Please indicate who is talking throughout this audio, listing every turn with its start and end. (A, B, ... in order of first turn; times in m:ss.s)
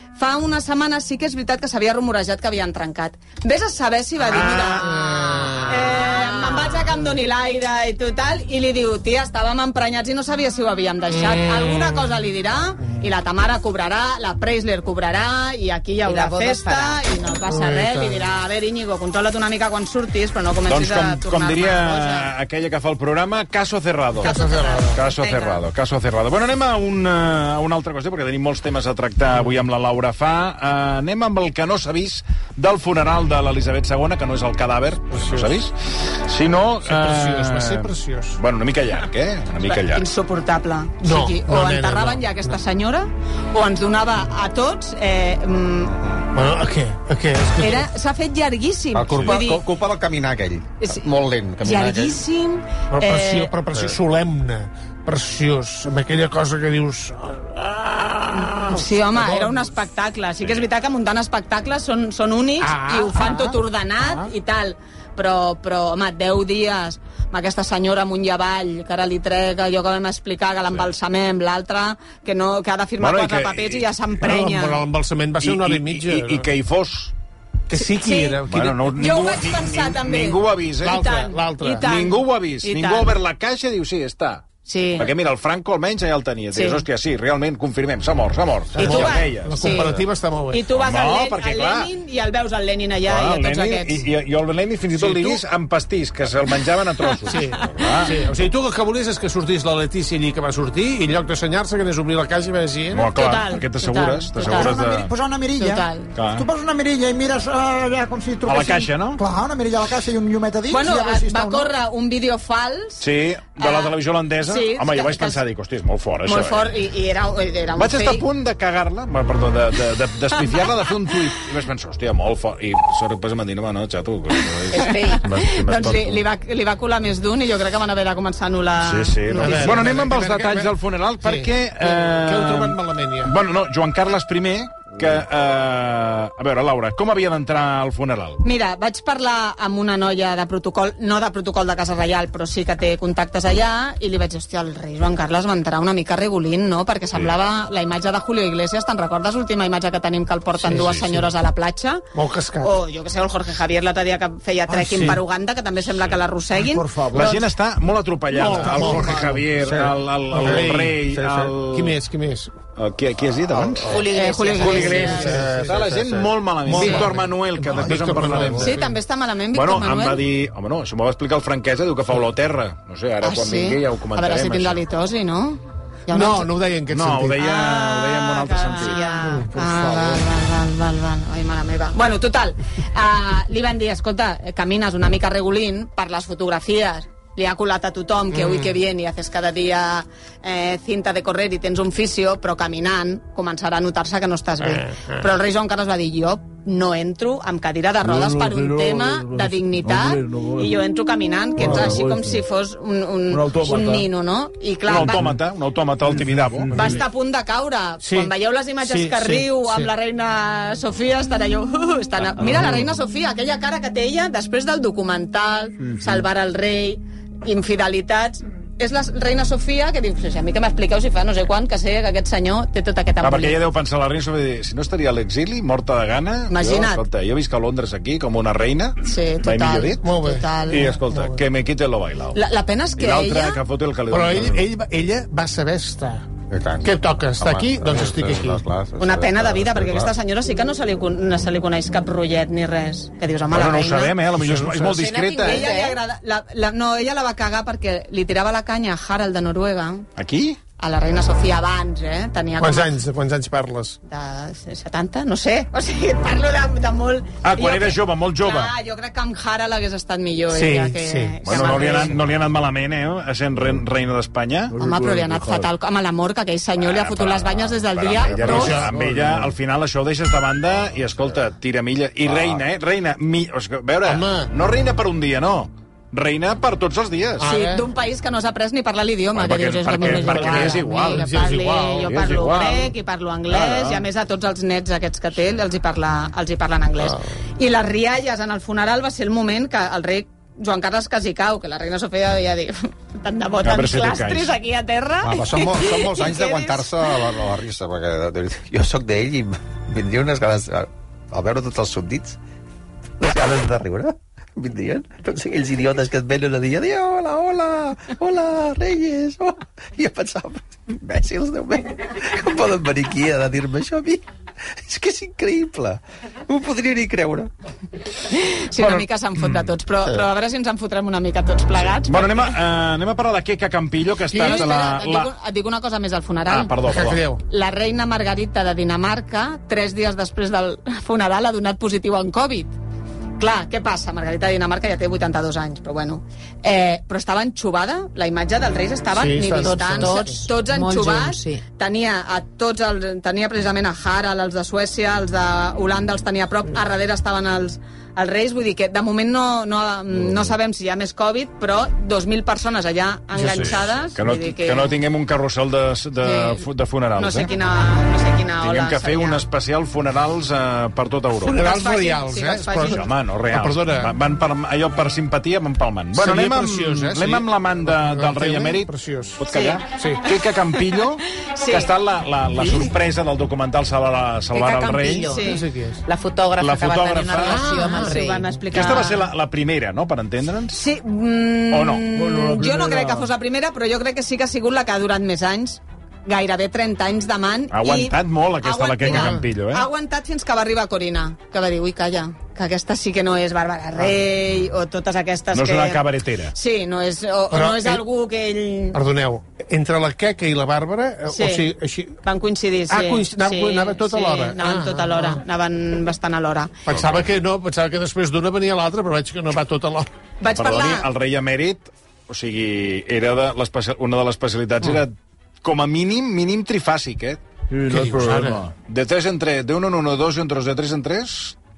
0:00.2-0:22.3 A
0:04.3-0:04.9 B
0:04.8-0:06.0 C
0:11.1-0:12.1 C
0:16.0-0:17.0 D
0:17.5-0:18.3 C
0:20.7-0:24.3 B
0:24.2-0:25.0 C
0:24.2-0:25.6 A
0:24.9-0:40.0 B
0:35.1-0:35.6 C
0:36.8-0:38.4 C
0:39.6-0:45.9 A
0:41.0-0:42.6 C
0:45.8-0:46.2 E
0:46.3-0:47.9 C
0:47.6-0:49.6 A
0:48.9-0:52.2 E
0:49.1-0:49.4 B
0:50.8-0:51.1 A
0:51.6-0:53.5 A
0:52.9-0:59.7 C
0:58.6-1:14.8 A
1:02.6-1:04.3 C
1:13.0-1:13.9 B
1:14.2-1:16.5 C
1:15.4-1:17.1 B
1:17.7-1:18.9 C
1:17.8-1:18.4 A
1:18.5-1:21.0 B
1:19.0-1:23.1 A
1:20.8-1:21.8 C
1:21.8-1:24.4 B
1:24.6-1:25.1 A
1:25.0-1:30.0 B
1:26.5-1:26.8 A
1:28.7-1:30.0 A
1:28.7-1:30.6 C
1:30.5-1:34.1 A
1:30.7-1:31.9 B
1:33.1-1:38.1 B
1:34.9-1:35.4 C
1:37.3-1:43.1 C
1:42.9-1:45.1 B
1:43.1-1:44.7 A
1:44.4-1:51.7 F
1:45.6-1:46.1 A
1:46.1-1:46.5 B
1:48.4-1:49.2 B
1:50.7-1:53.0 A
1:53.0-1:56.7 B
1:53.6-1:53.9 A
1:54.4-1:55.4 A
1:56.2-1:58.2 A
1:57.8-2:06.2 B
2:00.4-2:01.3 A
2:04.7-2:10.0 A
2:04.7-2:05.2 D
2:08.8-2:18.4 B
2:09.3-2:13.3 C
2:18.4-2:32.0 A
2:30.6-2:31.2 C
2:30.7-2:31.1 B
2:32.1-2:32.8 C
2:32.6-2:37.4 A
2:36.6-2:37.3 F
2:37.1-2:42.0 B
2:38.3-2:39.4 C
2:38.7-2:41.5 E
2:40.3-2:41.0 C
2:41.7-2:42.5 C
2:42.8-2:44.0 B
2:43.5-2:44.0 E
2:43.9-2:45.3 D
2:44.1-2:45.4 A
2:44.6-2:48.8 B
2:45.1-2:45.8 C
2:45.2-2:46.4 E
2:46.6-2:49.0 C
2:46.7-2:47.1 A
2:48.6-2:50.2 A
2:49.5-2:54.8 B
2:53.2-2:56.5 A
2:56.1-2:57.4 C
2:56.9-2:59.1 B
2:57.4-3:25.3 A
2:59.1-3:00.3 C
3:08.3-3:08.8 C
3:14.6-3:15.2 C
3:18.0-3:20.8 G
3:21.6-3:22.4 G
3:21.6-3:22.0 C
3:23.3-3:24.1 G
3:24.9-3:26.7 B
3:25.0-3:25.3 G
3:26.6-3:27.0 G
3:26.7-3:43.6 A
3:28.0-3:29.9 C
3:43.2-3:50.0 B
3:46.5-3:47.0 A
3:49.0-3:50.9 A
3:50.0-3:51.4 C
3:50.7-3:52.4 B
3:52.3-3:53.6 A
3:53.0-3:54.7 B
3:54.1-3:56.3 C
3:56.5-4:00.1 E
3:56.8-3:58.6 C
3:59.0-4:04.1 A
4:03.5-4:05.7 B
4:04.3-4:05.0 C
4:04.9-4:06.0 D
4:05.4-4:10.1 A
4:10.2-4:10.6 B
4:10.8-4:13.0 A
4:12.6-4:14.0 C
4:14.1-4:22.2 A
4:17.4-4:18.7 B
4:20.5-4:22.1 C
4:21.4-4:24.7 B
4:24.7-4:25.7 G
4:24.8-4:28.8 A
4:26.8-4:37.5 B
4:28.4-4:29.1 C
4:28.4-4:29.5 G
4:34.0-4:34.5 C
4:37.4-4:37.9 C
4:37.4-4:57.2 A
4:39.3-4:41.3 B
4:40.0-4:42.2 C
4:42.0-4:42.9 B
4:43.5-4:44.0 B
4:53.6-4:54.5 B
4:55.2-5:02.4 E
5:03.2-5:14.2 E
5:14.8-5:17.5 E
5:18.3-5:22.6 A
5:18.8-5:19.0 B
5:22.1-5:25.3 B
5:24.3-5:24.7 C
5:24.3-5:26.8 A
5:26.5-5:27.2 B
5:26.8-5:27.4 C
5:27.5-5:32.7 A
5:33.4-5:55.0 A
5:39.1-5:40.4 C
5:39.5-5:41.6 D
5:53.4-5:53.8 C
5:54.1-5:57.5 B
5:56.2-5:56.6 A
5:57.2-5:59.4 A
5:58.6-6:01.6 B
6:01.4-6:03.1 A
6:01.4-6:04.1 C
6:02.8-6:15.3 B
6:06.1-6:10.3 C
6:09.5-6:09.8 A
6:11.4-6:11.9 A
6:14.5-6:15.4 D
6:15.2-6:15.6 A
6:15.4-6:16.0 C
6:16.0-6:18.6 D
6:16.6-6:17.7 B
6:17.4-6:18.1 C
6:17.6-6:19.3 A
6:18.7-6:20.8 B
6:20.7-6:36.0 A
6:21.7-6:22.1 B
6:22.1-6:23.3 G
6:27.7-6:29.9 B
6:29.0-6:29.4 C
6:35.5-6:36.5 B
6:36.5-6:39.0 A
6:37.5-6:38.0 C
6:38.9-6:42.2 C
6:41.3-6:41.7 A
6:42.2-6:46.7 A
6:42.9-6:45.4 C
6:46.8-6:50.1 C
6:46.9-6:47.2 B
6:50.4-6:51.1 A
6:50.5-6:57.4 B
6:57.7-6:58.7 G
6:57.9-6:58.6 C
6:58.9-7:01.6 B